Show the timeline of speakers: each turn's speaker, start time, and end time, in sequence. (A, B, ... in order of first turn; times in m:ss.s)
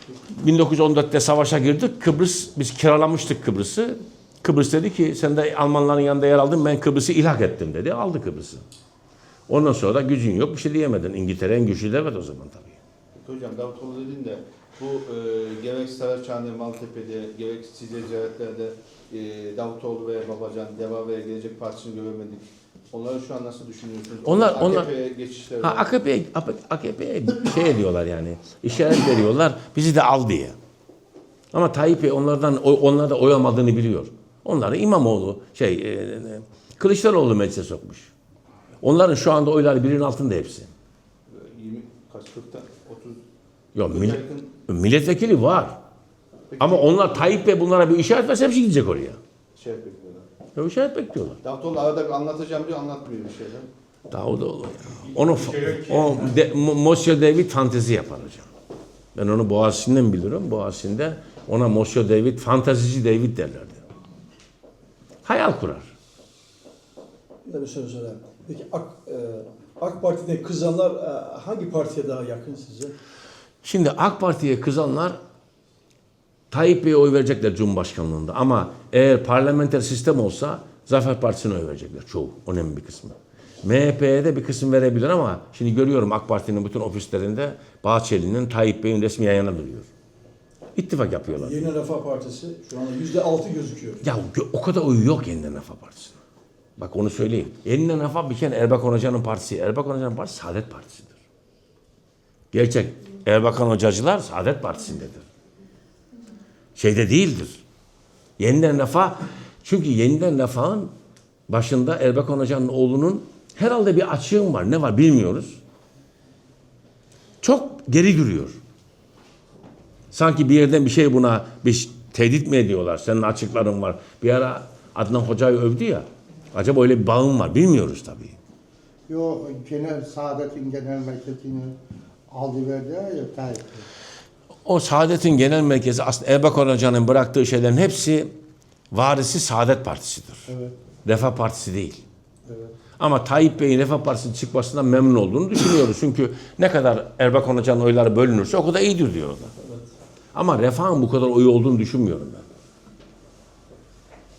0:00.3-0:08.6 A
0:09.5-0:12.8 A
0:13.2-0:25.9 B
0:24.2-0:24.9 A
0:25.6-0:30.6 A
0:31.5-0:38.1 A
0:38.8-0:40.7 A
0:41.3-0:43.2 B
0:43.7-0:45.8 A
0:43.9-0:44.5 B
0:46.5-0:47.3 B
0:46.6-0:49.2 A
0:49.6-0:50.3 B
0:50.6-0:51.4 A
0:51.4-0:53.7 B
0:54.1-0:58.5 A
0:55.2-0:56.2 C
0:59.1-1:03.8 A
1:05.2-1:05.9 A
1:07.4-1:12.9 C
1:13.6-1:15.2 A
1:16.5-1:29.9 A
1:30.8-1:31.7 A
1:31.3-1:34.0 C
1:34.0-1:36.2 A
1:36.8-1:41.2 A
1:42.5-1:45.2 A
1:46.8-1:47.6 A
1:48.4-1:50.9 A
1:51.5-1:55.6 A
1:57.4-1:58.6 A
2:00.1-2:08.4 A
2:09.1-2:11.8 D
2:12.3-2:13.9 D
2:14.6-2:18.3 A
2:18.9-2:20.5 A
2:20.5-2:20.8 D
2:21.0-2:22.0 A
2:22.4-2:22.7 D
2:23.0-2:29.5 A
2:30.3-2:32.4 A